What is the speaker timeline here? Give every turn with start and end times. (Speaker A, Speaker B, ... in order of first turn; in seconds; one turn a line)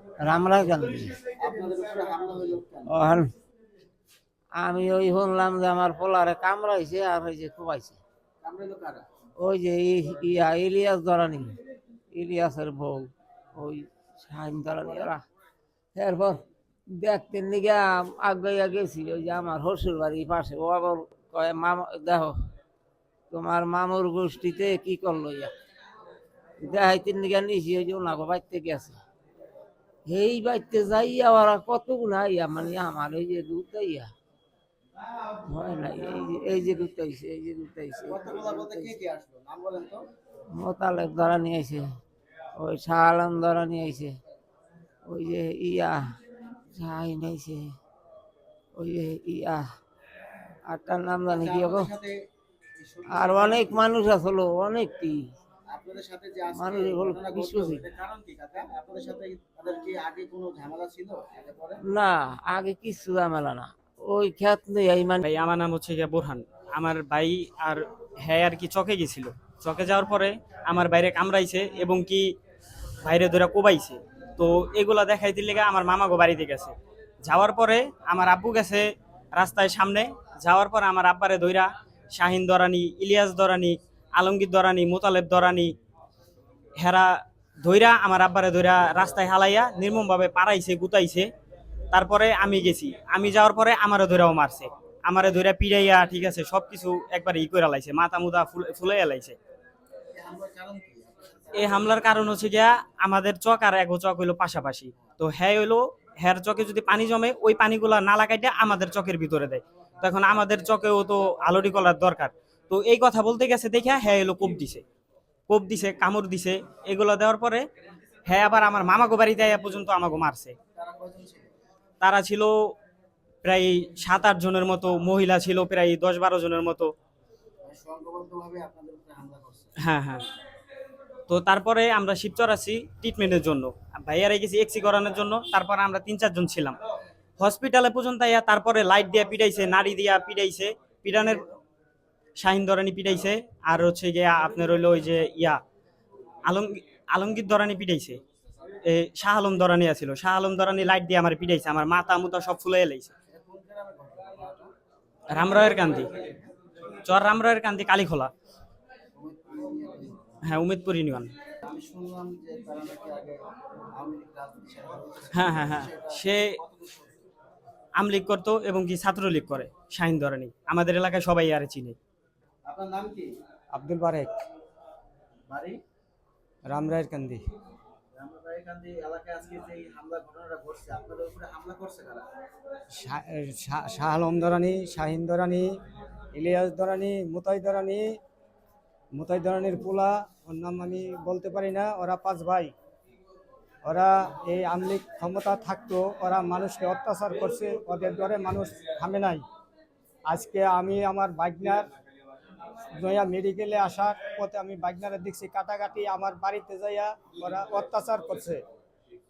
Speaker A: 0.2-1.2
Speaker B: 1.4-2.9
Speaker A: 2.9-3.3
Speaker A: 4.6-8.0
Speaker B: 8.4-9.0
Speaker A: 9.4-11.6
Speaker A: 12.1-15.2
Speaker A: 15.9-22.4
Speaker A: 23.3-25.5
Speaker A: 26.6-29.0
Speaker A: 30.1-34.1
Speaker A: 35.5-39.0
Speaker B: 38.1-40.0
Speaker A: 40.5-41.9
Speaker A: 42.6-44.2
Speaker A: 45.0-46.0
Speaker A: 46.7-47.7
Speaker A: 48.7-49.6
Speaker A: 50.7-51.9
Speaker B: 51.3-52.2
Speaker B: 52.8-53.8
Speaker A: 53.1-55.3
Speaker B: 55.7-61.8
Speaker A: 56.5-57.9
Speaker A: 61.8-65.2
Speaker C: 65.2-72.3
Speaker C: 73.0-85.7
Speaker C: 86.8-91.3
Speaker C: 91.9-99.4
Speaker B: 100.1-102.3
Speaker C: 101.5-114.8
Speaker C: 115.5-117.7
Speaker C: 118.2-120.5
Speaker B: 120.8-121.5
Speaker C: 122.0-122.5
Speaker C: 123.4-126.9
Speaker B: 127.6-129.7
Speaker C: 129.8-130.2
Speaker C: 131.3-136.8
Speaker C: 137.4-141.4
Speaker C: 142.4-145.6
Speaker C: 146.4-148.2
Speaker C: 148.8-153.1
Speaker B: 153.3-154.7
Speaker C: 155.3-156.1
Speaker B: 155.3-156.5
Speaker C: 157.0-158.3
Speaker B: 159.1-160.4
Speaker C: 160.4-161.3
Speaker B: 161.6-163.4
Speaker B: 163.9-167.3
Speaker C: 165.3-166.6
Speaker C: 167.9-172.0
Speaker B: 172.6-173.3
Speaker D: 173.7-174.3
Speaker B: 175.5-175.8
Speaker D: 176.7-177.4
Speaker B: 178.1-182.2
Speaker D: 183.0-185.7
Speaker D: 186.3-188.2
Speaker D: 189.1-192.7
Speaker D: 193.8-199.4
Speaker D: 200.3-201.9
Speaker D: 203.0-208.6